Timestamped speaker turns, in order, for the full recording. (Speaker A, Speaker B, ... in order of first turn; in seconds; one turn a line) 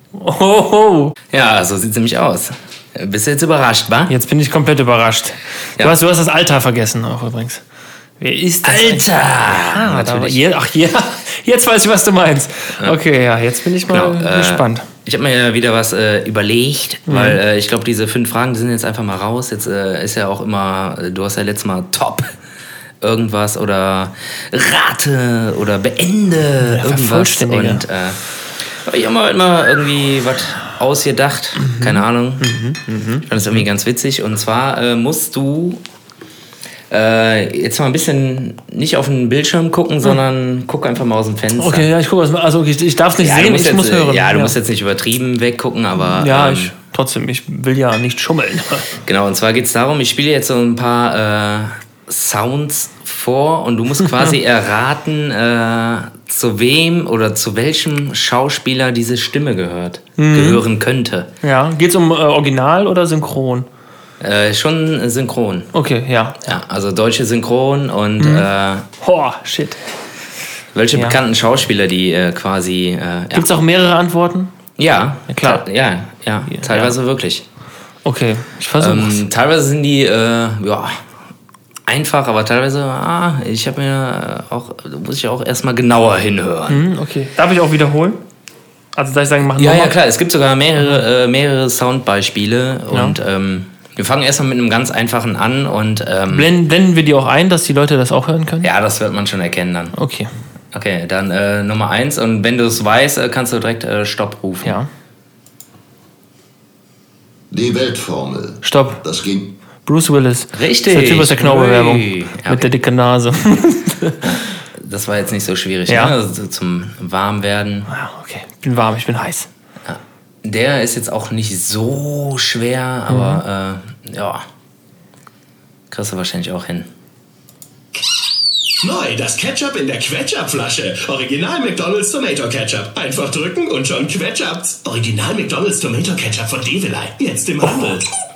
Speaker A: 0.1-1.1
Speaker B: 1.3-4.1
Speaker A: 4.1-7.6
Speaker A: 8.2-14.8
Speaker B: 8.6-10.4
Speaker B: 13.9-22.3
Speaker A: 17.1-17.4
Speaker B: 23.0-32.5
Speaker A: 26.6-27.8
Speaker A: 31.6-33.2
Speaker B: 33.2-35.8
Speaker B: 36.9-41.9
Speaker A: 41.5-44.5
Speaker B: 43.2-46.7
Speaker A: 46.1-48.9
Speaker B: 49.0-61.3
Speaker A: 60.2-60.6
Speaker A: 61.4-63.7
Speaker B: 64.2-65.7
Speaker A: 65.7-66.5
Speaker B: 66.4-68.8
Speaker A: 68.2-68.5
Speaker A: 69.0-69.8
Speaker B: 70.7-73.5
Speaker A: 73.3-74.5
Speaker B: 74.8-77.4
Speaker A: 75.3-75.6
Speaker A: 76.5-76.9
Speaker A: 78.0-79.2
Speaker B: 78.8-81.0
Speaker B: 81.9-86.8
Speaker A: 86.7-88.2
Speaker A: 88.9-90.0
Speaker B: 89.5-96.5
Speaker A: 92.9-93.2
Speaker A: 96.3-98.7
Speaker B: 98.6-99.9
Speaker A: 99.9-100.3
Speaker B: 100.7-104.8
Speaker C: 107.5-109.5
Speaker A: 108.6-109.0
Speaker A: 109.8-114.3
Speaker B: 110.5-112.7
Speaker B: 114.2-117.9
Speaker A: 115.9-116.1
Speaker A: 117.9-119.5
Speaker B: 119.8-124.4
Speaker A: 123.1-123.4
Speaker B: 125.9-126.9
Speaker D: 128.8-138.1